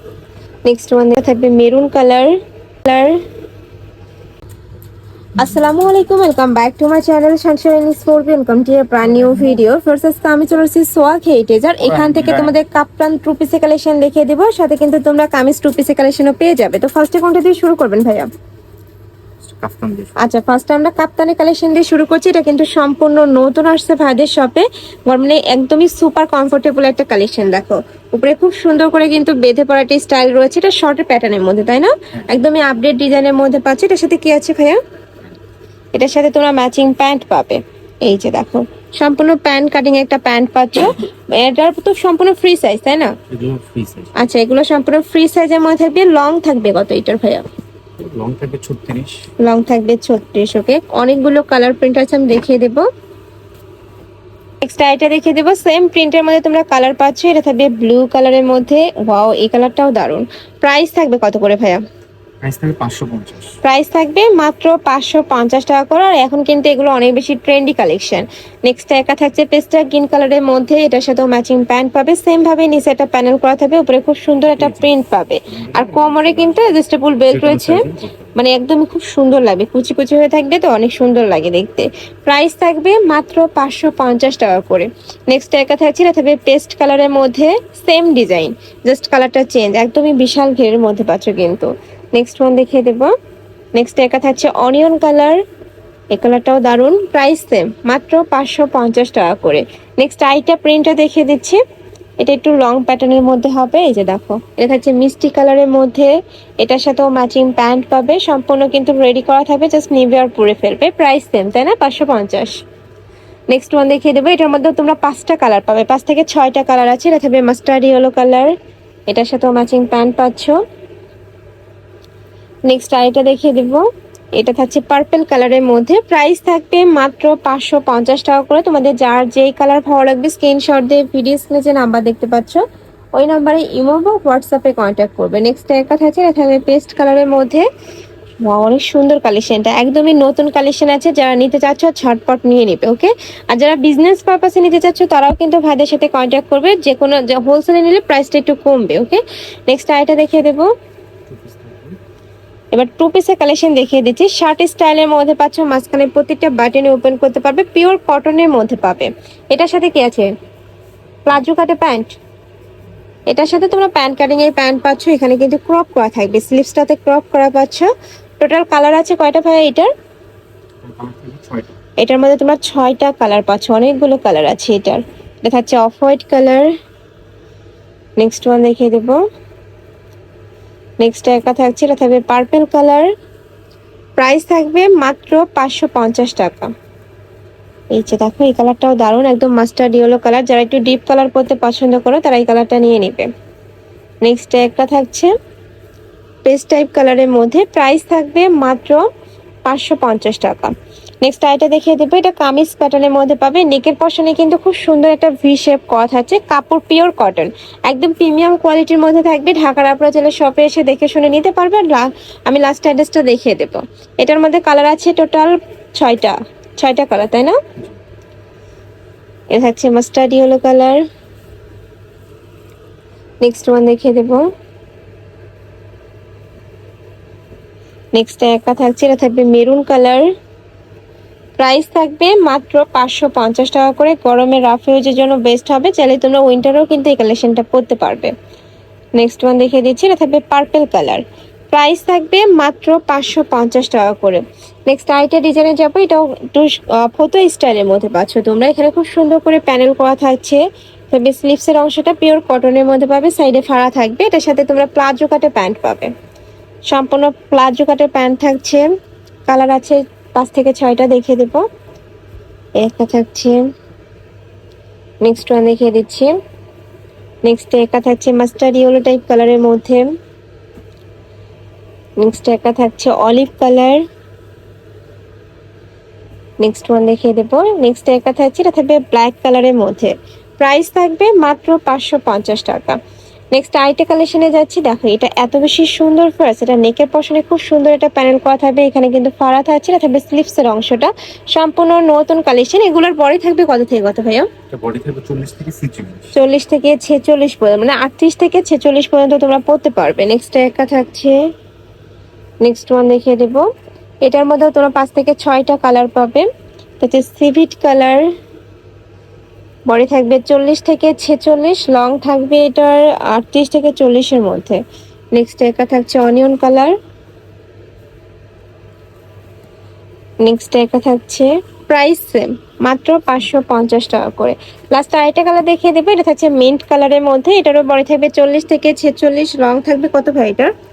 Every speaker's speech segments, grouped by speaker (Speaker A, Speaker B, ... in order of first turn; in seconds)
Speaker A: 0.7-3.2, 5.3-18.3, 20.2-34.8, 36.0-43.1, 44.2-47.5, 49.4-52.9, 54.6-61.8, 63.6-77.8, 78.3-93.1, 93.8-95.4, 96.1-101.6, 102.2-112.6, 113.5-118.5, 119.1-120.6, 122.7-132.6, 133.2-137.7, 138.4-150.7, 152.7-160.3, 161.2-162.2, 163.3-167.9, 168.4-169.9, 172.0-176.7, 178.2-179.2, 181.0-183.1, 184.2-186.7, 187.9-193.3, 194.2-195.3, 196.4-199.1, 199.7-217.6, 219.5-221.0, 223.4-224.4, 228.2-230.3, 231.6-238.3, 239.2-256.1, 256.9-258.9, 259.5-261.6, 262.8-263.6, 265.2-266.3, 267.4-270.1, 272.2-274.0, 276.6-283.0, 283.5-294.5, 296.3-301.4, 302.6-303.6, 304.2-306.5, 307.0-308.3, 309.9-314.8, 315.4-316.9, 320.4-330.7
Speaker B: 11.8-12.6, 19.4-20.2, 43.3-44.2, 48.0-49.3, 62.4-63.5, 74.5-74.9, 75.5-76.7, 77.2-78.4, 151.3-152.0, 170.8-171.7, 294.7-296.3